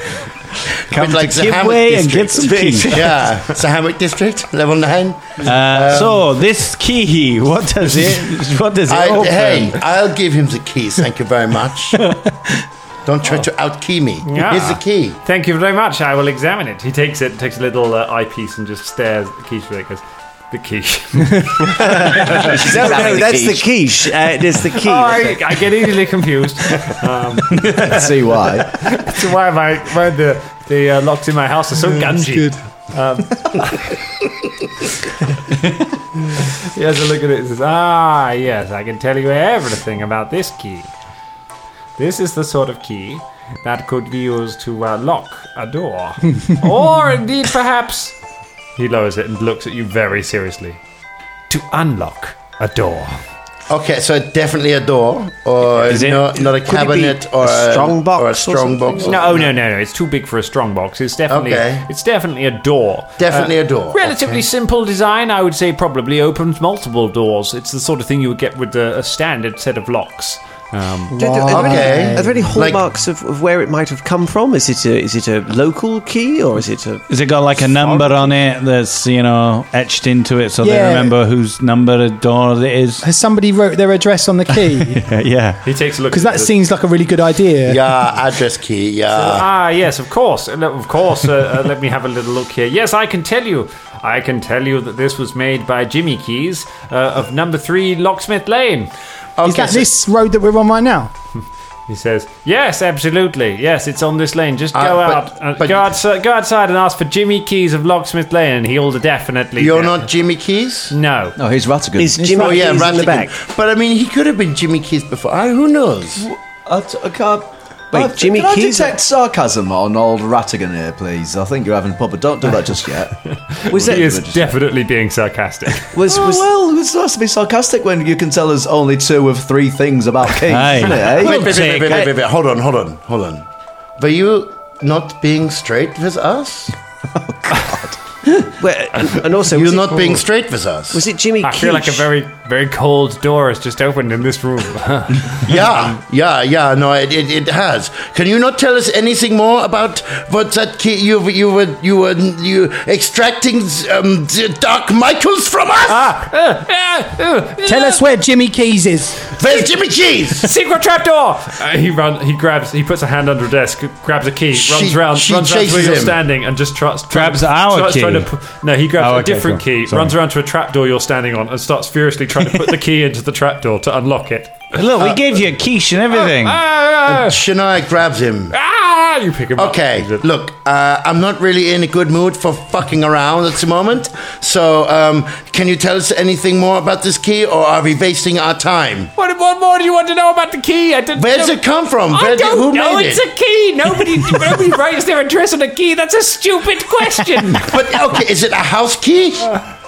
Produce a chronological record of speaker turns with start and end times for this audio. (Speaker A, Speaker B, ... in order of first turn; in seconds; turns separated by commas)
Speaker A: 0.9-6.3, Speaker B: 0.9-3.1, Speaker C: 2.3-3.3, Speaker B: 5.4-9.8, Speaker A: 8.9-12.1, Speaker A: 13.1-15.2, Speaker D: 14.2-22.9, Speaker C: 21.6-25.6, Speaker E: 21.9-23.8, Speaker D: 24.7-34.0, Speaker E: 27.6-28.8, Speaker F: 32.0-32.6, Speaker D: 36.4-40.9, Speaker D: 42.0-48.2, Speaker D: 48.8-50.8, Speaker D: 51.5-53.2, Speaker A: 53.7-59.5, Speaker C: 55.9-59.3, Speaker D: 59.0-71.1, Speaker A: 61.3-61.9, Speaker A: 63.2-64.4, Speaker F: 71.1-72.6, Speaker C: 71.1-78.3, Speaker A: 71.5-72.8, Speaker B: 77.1-83.0, Speaker F: 80.6-81.2, Speaker F: 83.0-85.0, Speaker B: 84.6-85.6, Speaker D: 85.6-86.5, Speaker F: 86.1-87.8, Speaker A: 87.7-89.5, Speaker D: 89.1-98.9, Speaker A: 99.4-99.9, Speaker F: 99.5-101.1, Speaker D: 101.9-110.1, Speaker A: 104.8-105.9, Speaker A: 109.6-110.9, Speaker D: 110.9-111.4, Speaker E: 111.4-112.5, Speaker C: 112.0-113.3, Speaker F: 112.2-112.6, Speaker A: 112.3-116.2, Speaker E: 116.2-124.6, Speaker C: 117.9-119.0, Speaker D: 123.5-126.0, Speaker C: 123.7-124.0, Speaker C: 126.0-126.5, Speaker E: 126.0-131.6, Speaker B: 130.5-132.1, Speaker A: 131.1-133.5, Speaker A: 134.0-136.8, Speaker E: 137.2-138.0, Speaker C: 138.6-140.3, Speaker A: 139.5-141.0, Speaker C: 140.9-142.1, Speaker D: 141.4-146.0, Speaker A: 145.4-156.2, Speaker D: 155.9-158.0, Speaker F: 157.6-159.4, Speaker A: 159.4-160.5, Speaker D: 160.4-175.2, Speaker A: 164.5-166.2, Speaker B: 167.1-168.3, Speaker B: 169.0-170.2, Speaker B: 174.7-176.6, Speaker D: 176.1-177.4, Speaker A: 177.1-178.6, Speaker D: 178.5-180.3, Speaker A: 179.6-189.1, Speaker D: 189.2-197.8, Speaker A: 191.2-193.2, Speaker A: 197.5-199.6